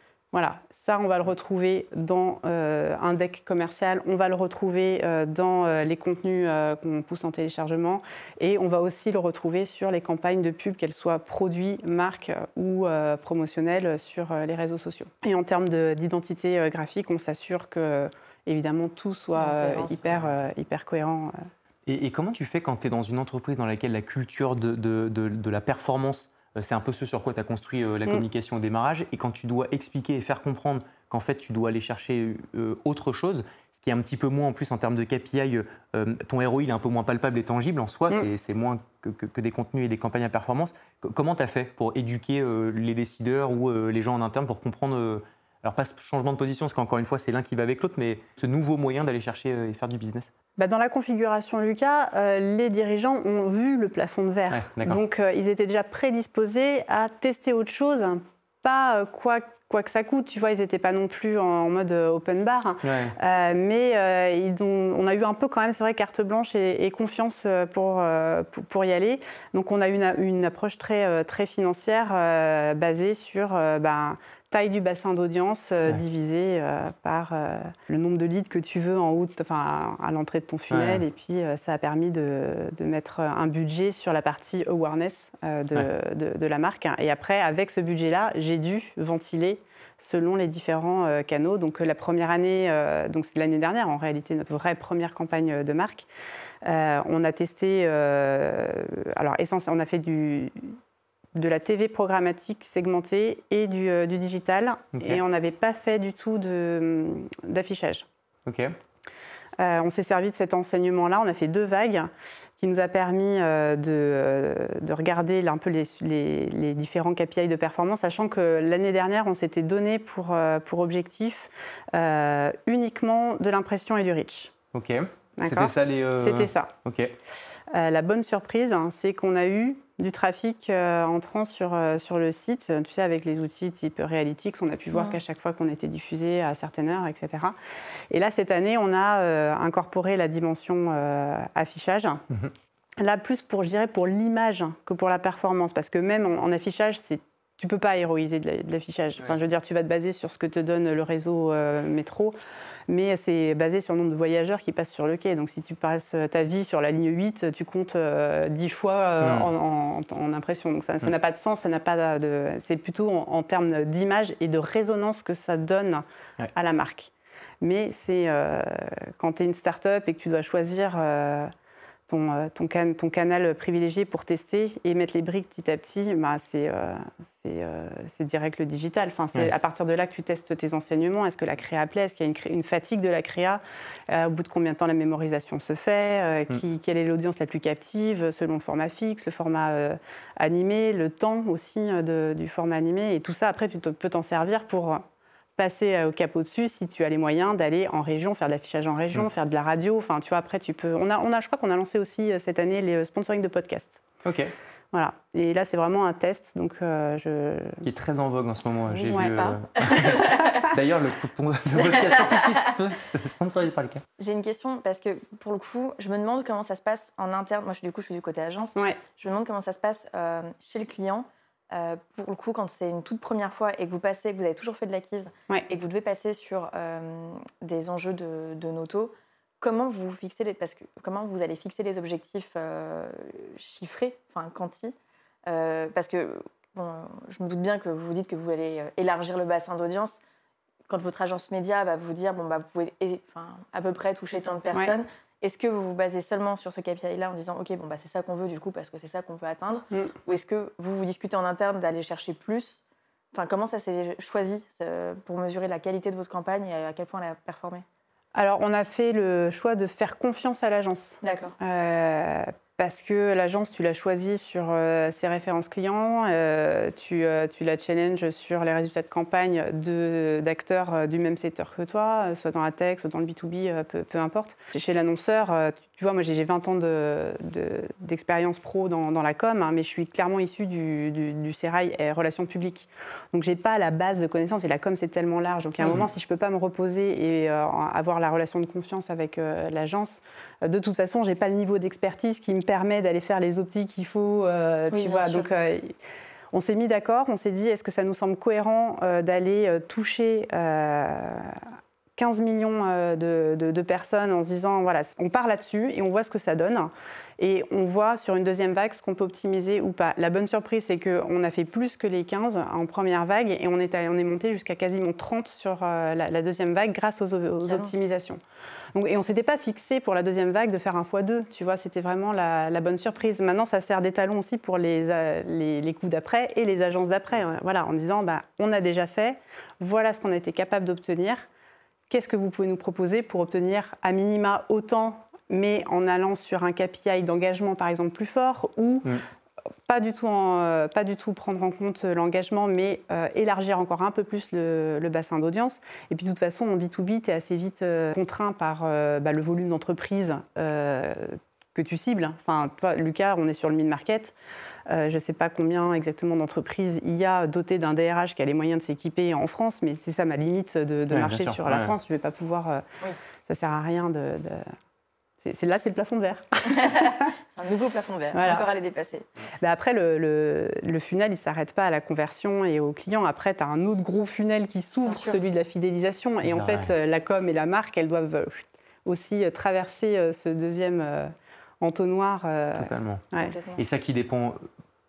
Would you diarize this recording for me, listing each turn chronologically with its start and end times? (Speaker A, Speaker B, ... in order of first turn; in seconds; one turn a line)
Speaker A: 0.3-21.3
Speaker B: 19.4-20.3
Speaker C: 21.9-50.3
Speaker A: 50.6-96.1
Speaker C: 54.5-55.0
Speaker C: 62.8-63.1
Speaker C: 80.7-81.0
Speaker A: 96.6-100.8
Speaker A: 101.3-108.1
Speaker C: 108.5-108.7
Speaker A: 109.6-124.5
Speaker C: 124.7-127.1
Speaker A: 125.4-126.7
Speaker A: 127.7-137.6
Speaker A: 138.1-142.2
Speaker A: 143.0-152.3
Speaker A: 152.9-171.5
Speaker C: 159.2-159.5
Speaker A: 172.1-195.0
Speaker A: 195.6-204.0
Speaker C: 204.2-204.5
Speaker A: 204.9-207.8
Speaker C: 207.8-214.0
Speaker B: 208.9-210.7
Speaker B: 214.2-234.9
Speaker B: 235.5-240.2
Speaker B: 240.9-257.8
Speaker A: 258.3-295.9
Speaker B: 261.2-261.5
Speaker B: 294.9-295.5
Speaker A: 296.5-318.4
Speaker B: 317.6-317.9
Speaker A: 318.9-331.4
Speaker A: 332.1-339.1
Speaker A: 339.9-354.3
Speaker A: 354.9-362.8
Speaker C: 361.1-361.9
Speaker A: 363.4-364.7
Speaker A: 365.4-367.3
Speaker B: 366.7-369.2
Speaker A: 368.3-368.6
Speaker A: 369.6-383.5
Speaker B: 375.1-375.4
Speaker C: 376.4-376.9
Speaker C: 382.7-383.2
Speaker B: 383.3-383.8
Speaker C: 383.8-384.6